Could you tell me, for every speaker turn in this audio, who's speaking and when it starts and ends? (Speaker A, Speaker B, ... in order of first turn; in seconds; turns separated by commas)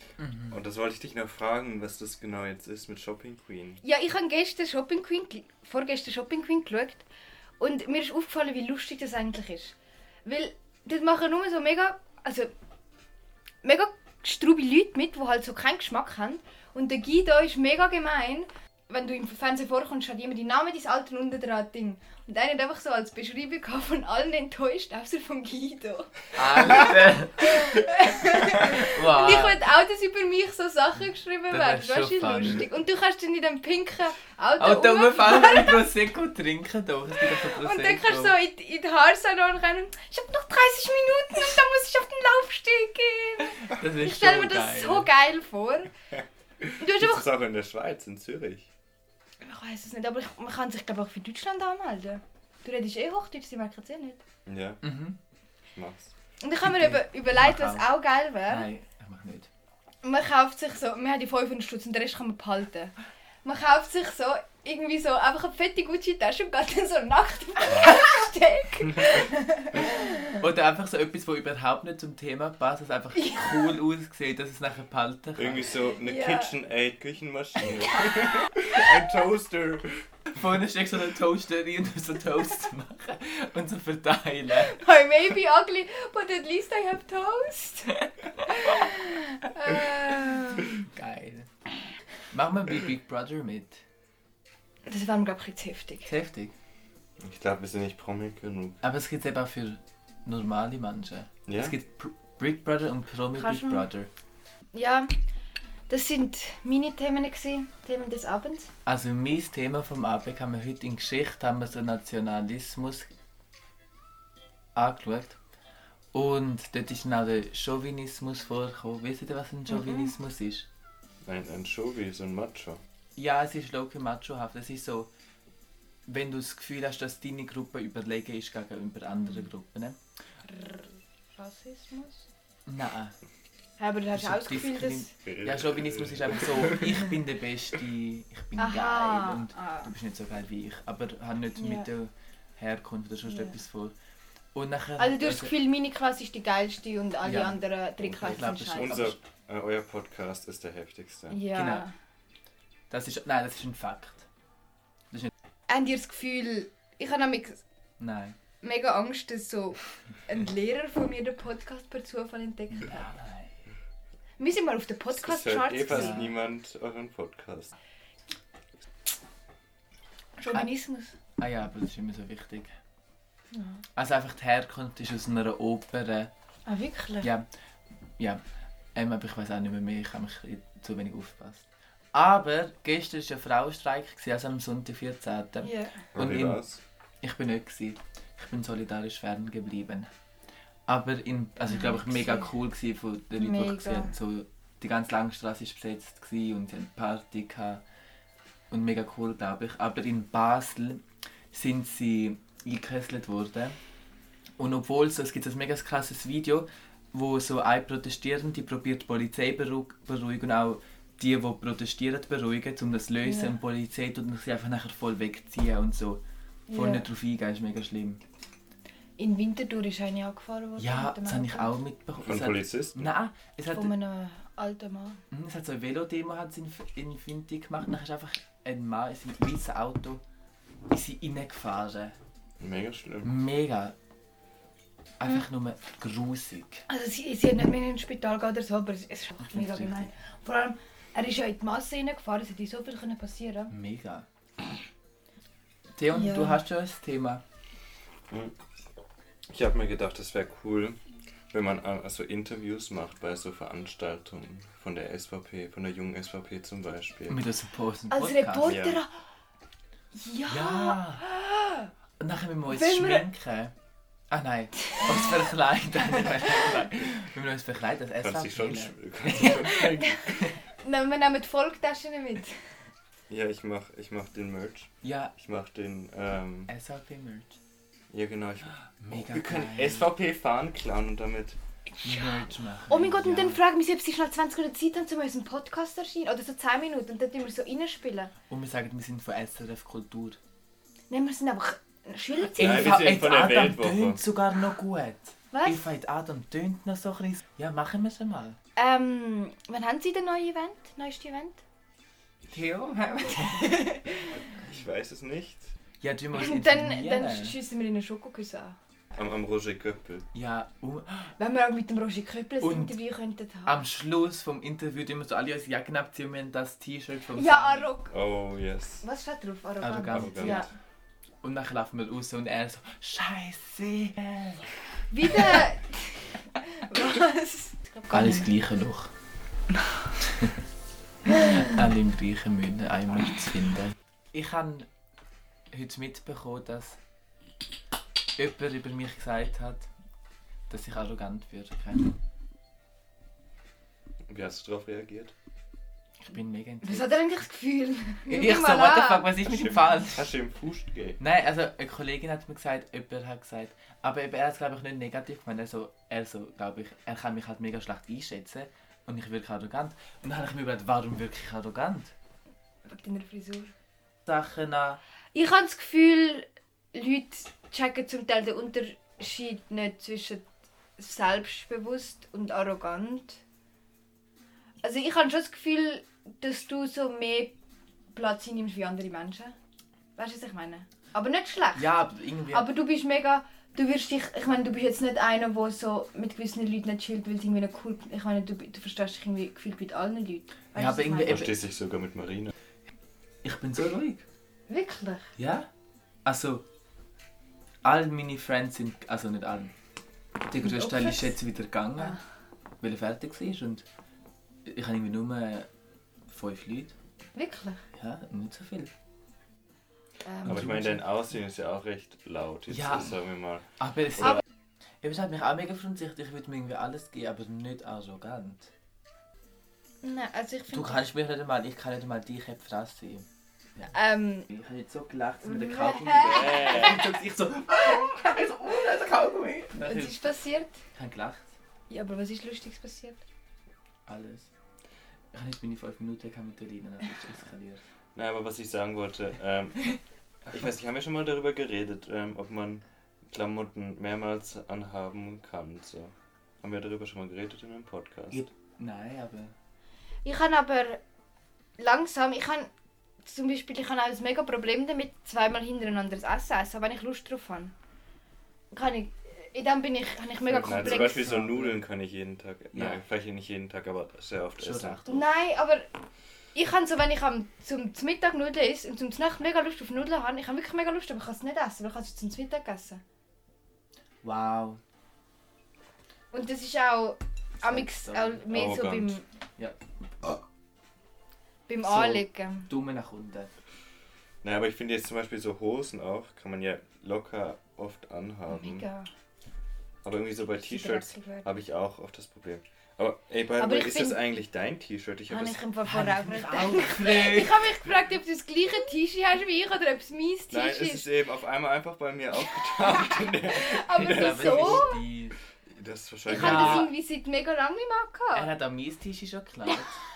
Speaker A: 0.2-0.6, Speaker B: 0.5-3.8, Speaker C: 3.8-7.0, Speaker C: 7.6-12.5, Speaker C: 13.6-35.9, Speaker A: 26.4-27.8, Speaker A: 28.5-29.6, Speaker A: 31.5-32.6, Speaker A: 34.6-38.3, Speaker C: 37.2-45.9, Speaker A: 43.5-45.1, Speaker B: 46.6-48.7, Speaker C: 46.8-47.3, Speaker C: 49.4-54.2, Speaker B: 54.5-54.8, Speaker A: 54.8-55.2, Speaker B: 55.8-56.1, Speaker C: 56.4-58.7, Speaker A: 56.6-57.9, Speaker A: 58.4-59.5, Speaker C: 60.0-62.9, Speaker C: 63.5-70.3, Speaker A: 69.8-75.8, Speaker C: 73.2-73.7, Speaker B: 75.4-80.1, Speaker C: 76.0-76.6, Speaker A: 80.3-84.8, Speaker C: 84.5-87.9, Speaker A: 88.0-88.8, Speaker C: 88.5-90.8, Speaker A: 90.8-91.5, Speaker A: 92.3-93.8, Speaker C: 94.9-96.1, Speaker A: 96.1-96.5, Speaker B: 97.2-98.8, Speaker A: 98.8-104.1, Speaker B: 101.5-101.8, Speaker C: 103.3-103.9, Speaker C: 104.7-105.1, Speaker C: 105.9-108.7, Speaker A: 108.8-113.1, Speaker A: 114.8-115.4, Speaker A: 116.1-120.7, Speaker C: 119.7-120.2, Speaker B: 121.2-122.8, Speaker A: 123.2-125.1, Speaker A: 126.1-130.0, Speaker C: 130.4-132.3, Speaker A: 132.7-133.2, Speaker C: 133.8-135.1, Speaker A: 134.1-143.9, Speaker B: 135.2-137.1, Speaker C: 138.6-139.9, Speaker C: 141.6-141.9, Speaker C: 143.3-143.6, Speaker A: 144.5-145.6, Speaker C: 145.0-149.1, Speaker A: 147.2-149.2, Speaker B: 148.0-151.4, Speaker C: 151.3-151.9, Speaker A: 151.5-151.9, Speaker A: 152.9-154.3, Speaker C: 155.7-157.6, Speaker A: 158.0-158.4, Speaker C: 158.6-162.9, Speaker A: 162.7-163.6, Speaker C: 164.4-166.2, Speaker B: 165.1-167.7, Speaker A: 165.9-166.4, Speaker C: 170.4-171.2, Speaker A: 171.4-172.7, Speaker C: 173.5-173.8, Speaker A: 174.0-176.3, Speaker C: 176.7-177.3, Speaker A: 177.2-177.5, Speaker A: 178.9-186.6, Speaker C: 185.6-186.0, Speaker B: 186.1-186.8, Speaker A: 187.2-190.1, Speaker A: 190.9-197.8, Speaker C: 191.6-192.5, Speaker C: 193.4-194.2, Speaker A: 198.7-203.8, Speaker A: 204.6-218.2, Speaker C: 213.2-213.6, Speaker C: 216.7-217.1, Speaker C: 219.2-221.7, Speaker A: 220.8-223.9, Speaker B: 222.2-223.1, Speaker C: 223.7-225.2, Speaker A: 225.3-230.2, Speaker A: 230.9-232.2, Speaker B: 232.6-233.3, Speaker A: 233.2-233.9, Speaker A: 235.2-236.8, Speaker C: 236.9-243.7, Speaker A: 239.4-240.1, Speaker A: 243.7-244.3, Speaker A: 246.0-247.4, Speaker C: 246.1-246.6, Speaker B: 248.3-248.6, Speaker B: 249.5-251.0, Speaker B: 251.5-257.4, Speaker A: 257.3-258.8, Speaker C: 258.1-259.1, Speaker B: 258.6-259.0, Speaker C: 260.1-261.9, Speaker A: 260.5-261.2, Speaker A: 262.2-263.7, Speaker C: 262.7-263.3, Speaker A: 264.3-269.7, Speaker C: 265.0-265.4, Speaker B: 268.2-270.4, Speaker C: 269.4-272.5, Speaker B: 273.3-276.7, Speaker A: 275.0-275.3, Speaker A: 276.7-277.6, Speaker B: 278.1-281.6, Speaker A: 279.0-280.1, Speaker A: 282.0-283.6, Speaker C: 282.9-288.3, Speaker A: 288.5-290.4, Speaker C: 291.1-293.0, Speaker B: 292.5-294.2, Speaker A: 292.6-298.6, Speaker C: 295.5-295.9, Speaker C: 298.8-301.6, Speaker A: 302.5-303.6, Speaker C: 303.3-304.4, Speaker B: 304.6-305.7, Speaker A: 306.0-307.6, Speaker C: 306.3-308.8, Speaker B: 309.1-310.3, Speaker A: 310.3-311.3, Speaker C: 311.4-313.8, Speaker A: 312.6-313.0, Speaker A: 313.6-317.9, Speaker C: 317.4-318.1, Speaker B: 318.1-319.1, Speaker C: 319.0-320.7, Speaker A: 319.8-320.7, Speaker B: 320.1-320.7, Speaker A: 321.4-324.7, Speaker C: 325.1-328.5, Speaker A: 328.1-329.1, Speaker A: 331.3-334.9, Speaker A: 335.7-337.0, Speaker A: 338.4-339.9, Speaker A: 340.7-342.1, Speaker B: 344.3-345.4, Speaker A: 346.2-347.2, Speaker C: 346.8-349.3, Speaker A: 348.3-350.3, Speaker B: 349.4-351.2, Speaker A: 351.2-362.1, Speaker C: 362.9-363.7, Speaker A: 364.3-365.0, Speaker C: 365.3-370.4, Speaker C: 371.0-373.4, Speaker C: 374.8-377.6, Speaker C: 378.1-379.6, Speaker C: 380.2-381.9, Speaker A: 381.7-382.7, Speaker C: 382.5-391.5, Speaker A: 390.8-391.5, Speaker B: 391.3-392.5, Speaker A: 393.4-394.2, Speaker C: 394.7-395.3, Speaker A: 395.4-395.7, Speaker A: 396.2-396.6, Speaker A: 397.8-399.7, Speaker A: 400.5-402.2, Speaker C: 400.6-401.4, Speaker A: 402.8-403.9, Speaker A: 404.6-405.7, Speaker A: 406.3-406.9, Speaker C: 407.4-407.8, Speaker A: 408.0-408.9, Speaker C: 410.2-410.6, Speaker A: 410.4-411.1, Speaker B: 410.5-413.7, Speaker A: 412.7-413.2, Speaker A: 413.8-414.4, Speaker A: 415.0-418.7, Speaker C: 420.0-421.1, Speaker A: 420.7-423.3, Speaker C: 423.9-424.5, Speaker A: 424.5-430.2, Speaker C: 425.4-426.9, Speaker B: 426.2-427.1, Speaker C: 429.8-430.8, Speaker A: 430.9-431.6, Speaker C: 431.9-433.2, Speaker A: 434.1-434.5, Speaker A: 435.3-437.8, Speaker B: 438.1-448.4, Speaker A: 448.3-449.5, Speaker C: 450.2-451.0, Speaker C: 451.8-452.7, Speaker C: 453.2-457.7, Speaker C: 458.7-461.2, Speaker A: 460.4-461.8, Speaker B: 460.6-465.0, Speaker A: 462.7-463.0, Speaker A: 464.6-465.3, Speaker C: 465.1-465.9, Speaker C: 466.5-473.0, Speaker A: 474.2-474.8, Speaker C: 476.3-479.2, Speaker A: 477.6-478.5, Speaker B: 478.5-479.2, Speaker A: 479.6-480.4, Speaker C: 481.7-482.7, Speaker A: 481.8-483.5, Speaker B: 484.4-488.9, Speaker C: 488.5-489.1, Speaker B: 490.0-495.6, Speaker C: 490.6-491.5, Speaker C: 493.6-494.3, Speaker C: 495.3-501.1, Speaker A: 495.9-497.7, Speaker B: 500.5-504.9, Speaker C: 502.7-505.0, Speaker A: 503.9-505.4, Speaker B: 505.6-506.9, Speaker C: 506.3-508.5, Speaker A: 506.3-506.9, Speaker A: 508.3-509.9